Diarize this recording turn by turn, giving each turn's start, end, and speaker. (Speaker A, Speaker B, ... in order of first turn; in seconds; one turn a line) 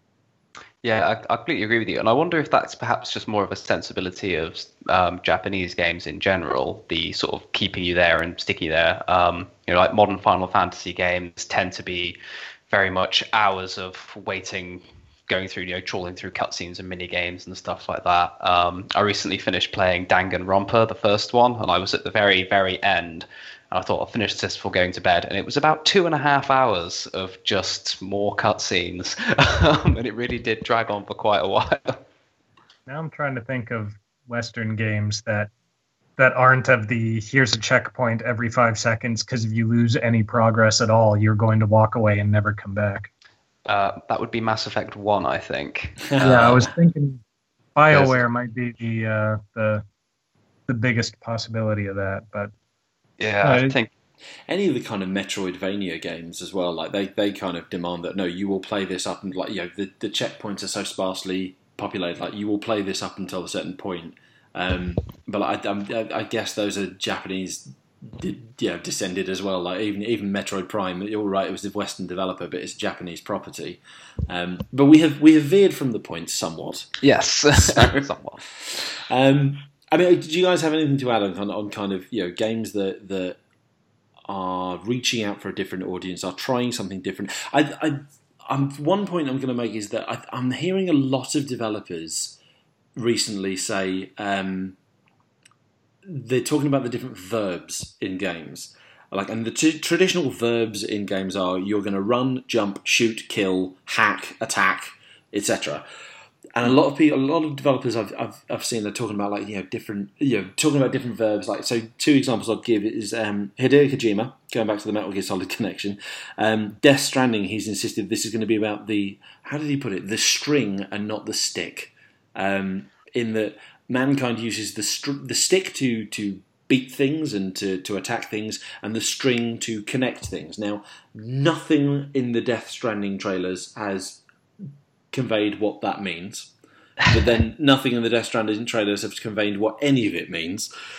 Speaker A: 0.8-12.2
Speaker A: 12.7-32.0
Speaker B: 32.9-35.5
Speaker B: 36.2-43.1
Speaker A: 43.7-46.6
Speaker C: 46.1-46.6
Speaker B: 46.2-47.2
Speaker B: 47.8-49.8
Speaker A: 47.9-48.2
Speaker B: 50.7-52.5
Speaker A: 53.2-53.9
Speaker B: 53.4-53.8
Speaker C: 54.5-76.9
Speaker A: 77.0-78.4
Speaker C: 77.6-78.0
Speaker C: 78.6-83.4
Speaker C: 84.3-92.4
Speaker C: 93.0-94.8
Speaker C: 96.0-105.8
Speaker C: 106.5-134.2
Speaker C: 135.1-136.5
Speaker C: 137.1-140.7